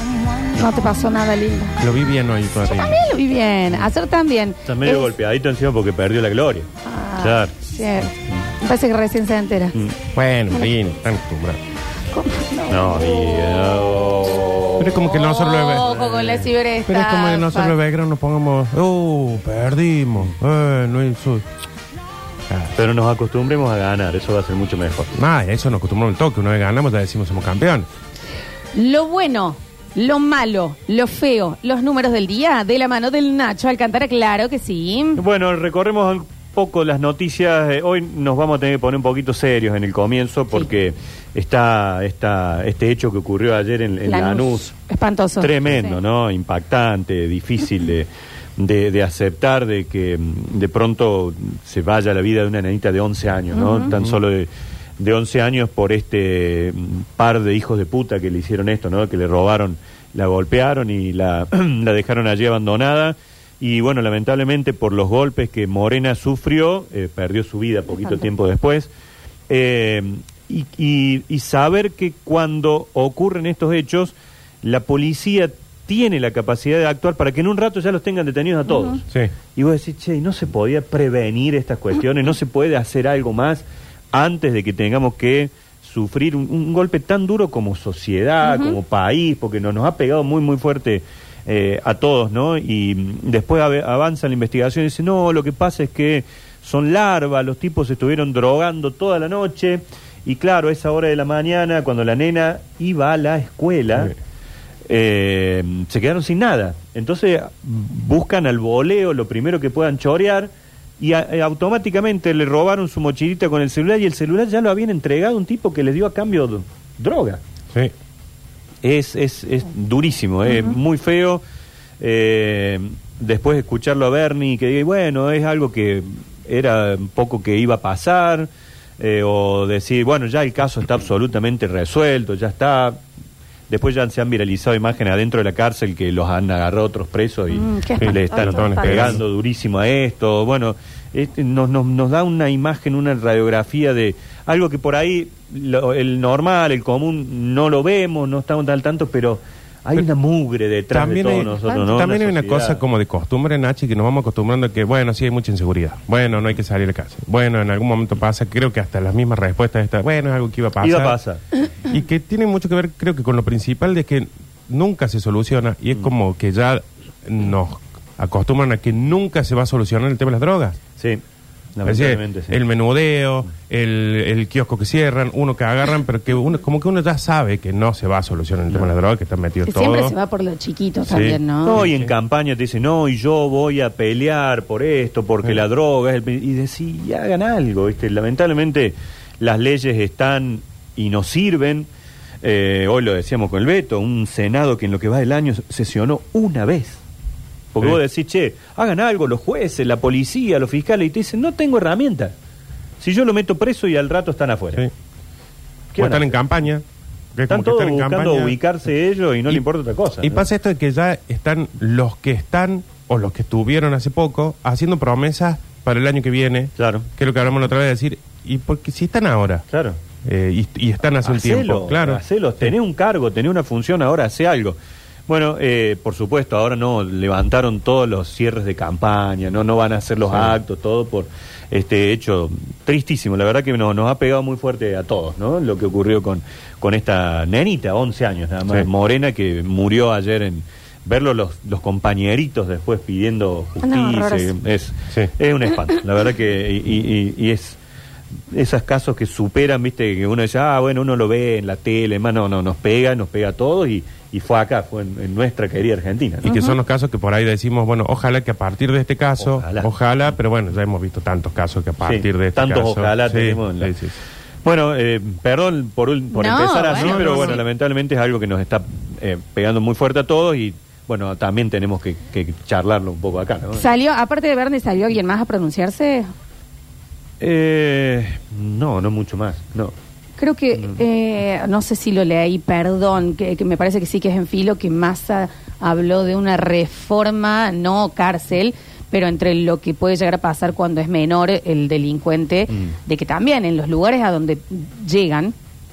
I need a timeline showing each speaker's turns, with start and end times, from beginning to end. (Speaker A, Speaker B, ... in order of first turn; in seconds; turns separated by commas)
Speaker A: 0.4-1.8, Speaker B: 1.8-3.0, Speaker A: 2.7-5.1, Speaker C: 4.7-7.5, Speaker A: 6.8-9.8, Speaker B: 10.1-11.6, Speaker A: 12.1-13.8, Speaker C: 12.7-15.0, Speaker B: 14.8-15.9, Speaker A: 15.0-17.7, Speaker C: 15.7-16.5, Speaker B: 16.9-21.4, Speaker C: 22.8-25.1, Speaker B: 25.1-27.9, Speaker A: 28.7-35.2, Speaker C: 35.2-44.7, Speaker A: 44.0-46.0, Speaker C: 45.4-68.9, Speaker A: 53.5-53.9, Speaker C: 69.5-104.1, Speaker A: 78.7-79.0, Speaker A: 88.4-88.8, Speaker C: 104.9-117.4, Speaker C: 118.8-121.4, Speaker A: 120.5-120.8, Speaker C: 122.0-128.5, Speaker C: 129.0-133.0, Speaker C: 133.7-152.8, Speaker A: 137.5-139.2, Speaker B: 138.0-139.2, Speaker B: 150.9-161.2, Speaker A: 151.6-151.9, Speaker C: 160.8-161.4, Speaker B: 161.8-170.8, Speaker C: 171.8-172.6, Speaker B: 171.8-180.1, Speaker A: 179.6-181.8, Speaker B: 181.1-182.1, Speaker C: 181.7-191.9, Speaker C: 192.4-197.0, Speaker C: 197.7-202.3, Speaker C: 203.0-204.8, Speaker C: 205.9-206.3, Speaker B: 206.0-206.8, Speaker B: 207.3-208.6, Speaker C: 207.5-210.5, Speaker B: 210.2-219.7, Speaker C: 216.8-217.1, Speaker C: 219.7-220.0, Speaker B: 220.2-222.7, Speaker C: 221.2-224.8, Speaker C: 225.3-247.8, Speaker A: 243.8-244.5, Speaker C: 248.5-256.4, Speaker B: 256.4-264.1, Speaker A: 256.4-256.8, Speaker C: 259.4-259.9, Speaker C: 262.0-263.9, Speaker C: 264.6-273.9, Speaker A: 266.3-267.6, Speaker B: 266.9-267.6, Speaker A: 273.8-276.3, Speaker C: 277.4-279.9, Speaker A: 280.4-295.5